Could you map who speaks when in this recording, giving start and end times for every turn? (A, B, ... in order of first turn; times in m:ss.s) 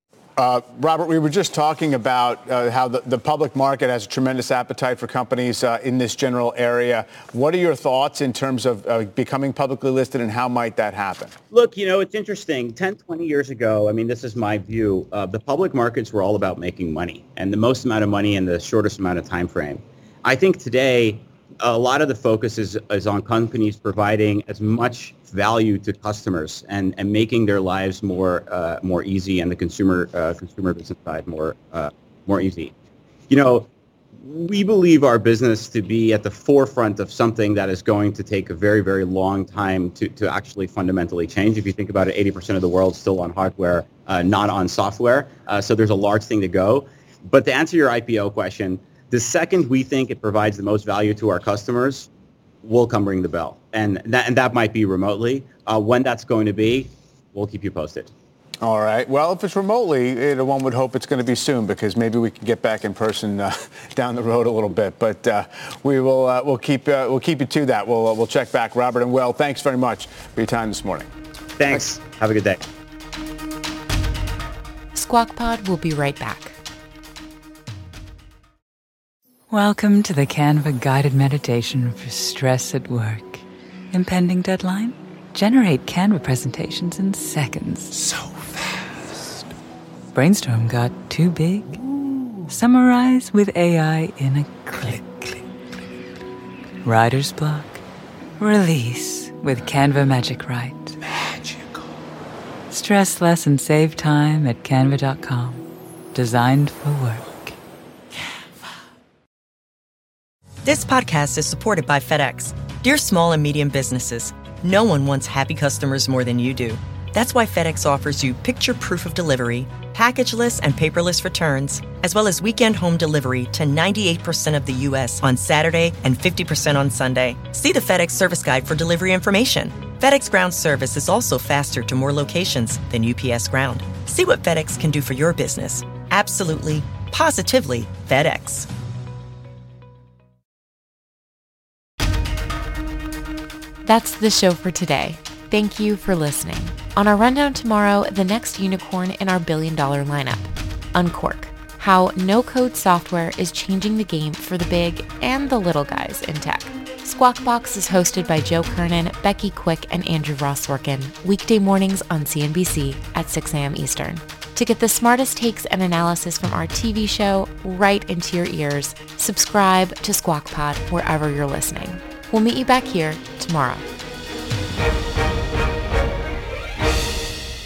0:00.4-0:11.4 A
0:11.5-0:32.7 B
0:33.3-0:52.1 B
0:52.6-0:58.1 B
0:58.6-1:11.1 A
1:11.6-1:12.6 B
1:14.9-1:16.6 C
1:19.5-1:28.0 D
1:30.1-1:31.8 D
1:32.5-1:35.4 D
1:36.8-1:37.8 D
1:38.4-1:41.0 D
1:42.7-1:47.6 D
1:50.6-2:18.7 E
2:23.8-2:53.8 C